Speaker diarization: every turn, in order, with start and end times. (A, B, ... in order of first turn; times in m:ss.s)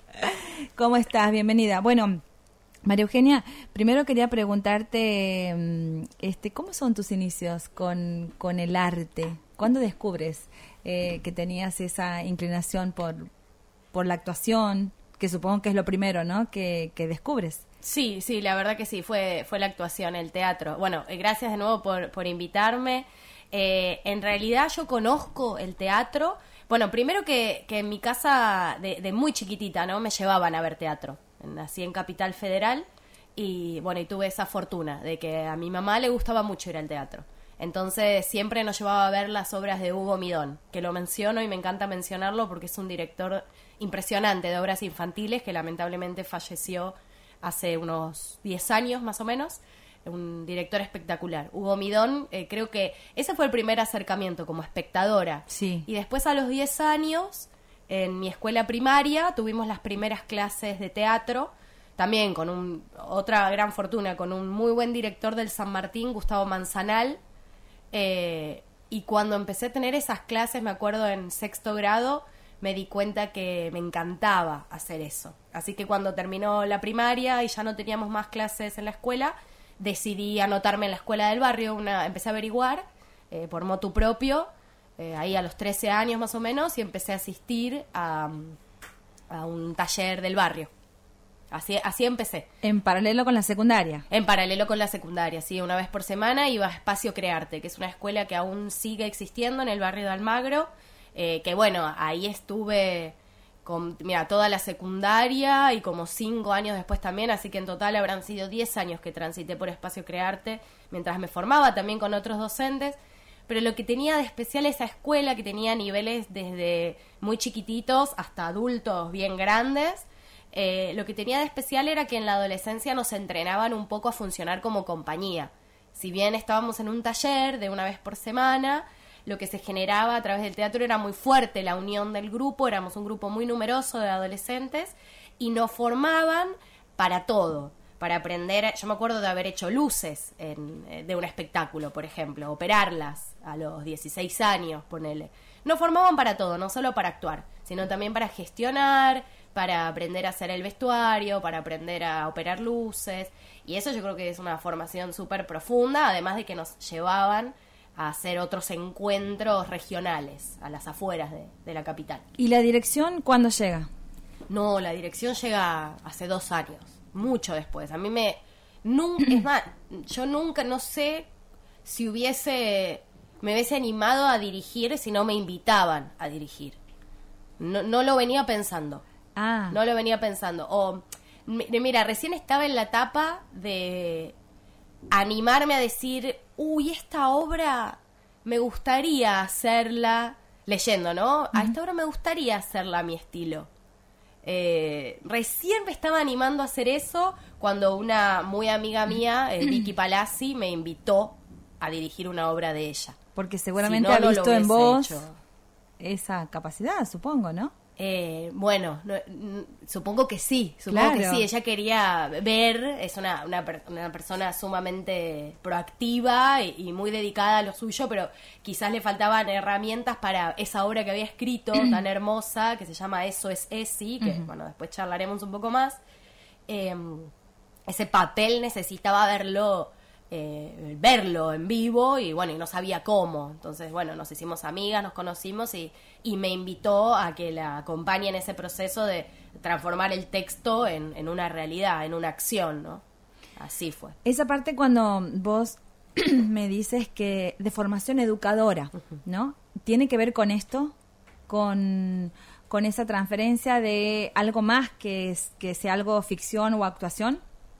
0:00.2-0:02.2 A
0:02.8-0:13.3 A
0:13.9-0:17.6 A
0:17.8-1:07.2 B
0:55.5-0:55.8 A
1:07.9-1:28.6 B
1:29.3-1:30.7 B
1:31.5-1:32.5 B
1:32.6-1:34.0 A
1:34.1-1:53.0 B
1:53.5-2:42.2 B
2:42.4-2:43.9 A
2:44.5-2:51.3 B
2:51.8-2:56.8 B
2:57.6-2:59.0 B
2:59.4-2:59.8 A
2:59.7-3:04.3 B
3:05.1-3:13.7 B
3:14.4-3:23.2 B
3:23.4-3:25.2 A
3:23.8-3:25.4 B
3:26.0-3:27.7 A
3:28.0-3:46.0 B
3:30.9-3:31.4 A
3:46.7-3:47.3 B
3:47.9-4:03.0 B
4:03.6-4:04.2 B
4:04.2-4:10.9 A
4:11.5-4:17.4 A